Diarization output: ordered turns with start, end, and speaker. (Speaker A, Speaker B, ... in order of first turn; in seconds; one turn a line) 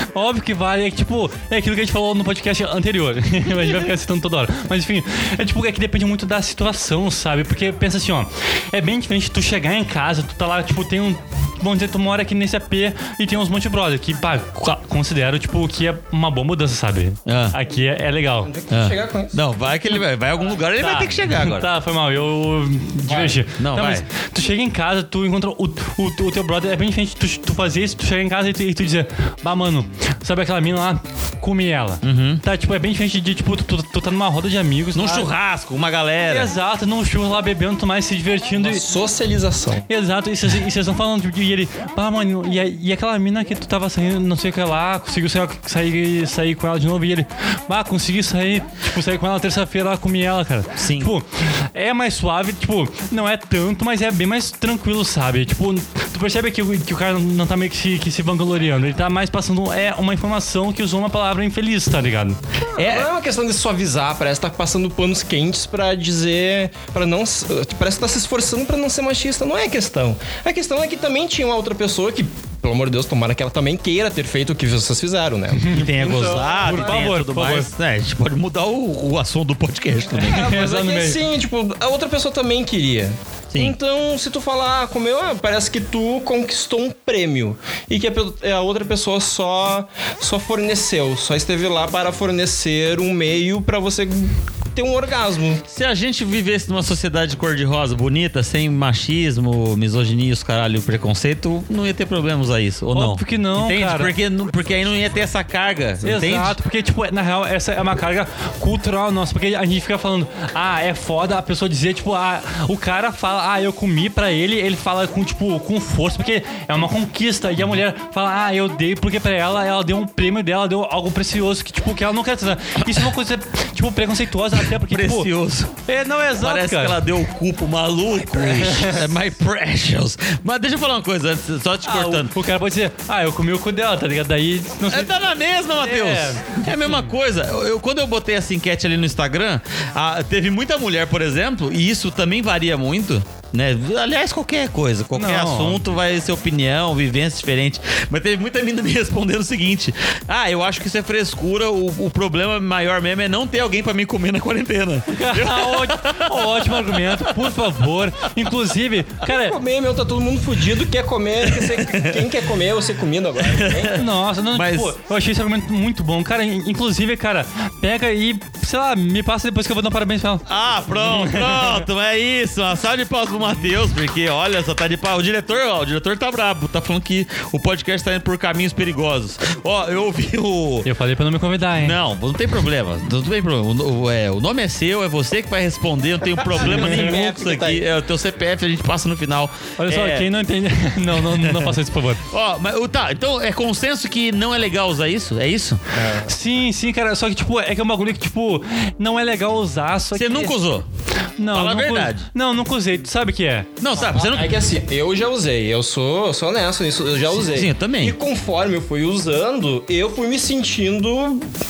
Speaker A: 0.1-18.5
Speaker B: 17.2-17.5
Speaker C: 18.4-19.4
Speaker B: 18.7-21.7
Speaker A: 20.8-35.3
Speaker B: 23.6-24.1
Speaker B: 32.0-32.4
Speaker B: 34.9-36.5
Speaker A: 36.3-38.8
Speaker C: 38.6-39.9
Speaker A: 39.9-63.1
Speaker B: 50.8-51.1
Speaker C: 62.7-77.0
Speaker A: 75.6-77.7
Speaker B: 75.7-80.5
Speaker A: 80.1-81.2
Speaker C: 80.2-95.6
Speaker B: 83.5-83.8
Speaker B: 95.7-106.6
Speaker A: 102.9-104.1
Speaker A: 106.0-125.3
Speaker B: 124.7-125.8
Speaker A: 125.8-127.0
Speaker B: 126.4-132.3
Speaker A: 128.3-129.1
Speaker A: 131.8-135.1
Speaker B: 134.9-157.5
Speaker A: 135.7-137.1
Speaker A: 145.1-145.8
Speaker A: 155.1-159.6
Speaker C: 159.2-164.0
Speaker B: 161.4-162.2
Speaker B: 163.4-164.9
Speaker A: 163.9-171.8
Speaker B: 170.5-180.9
Speaker A: 180.8-182.0
Speaker B: 181.8-190.3
Speaker C: 186.5-187.8
Speaker A: 189.8-192.2
Speaker B: 191.2-195.8
Speaker C: 195.9-196.3
Speaker A: 196.3-200.5
Speaker B: 200.1-200.8
Speaker A: 201.4-203.7
Speaker B: 201.5-202.3
Speaker B: 203.8-204.5
Speaker C: 203.9-211.5
Speaker B: 207.3-208.1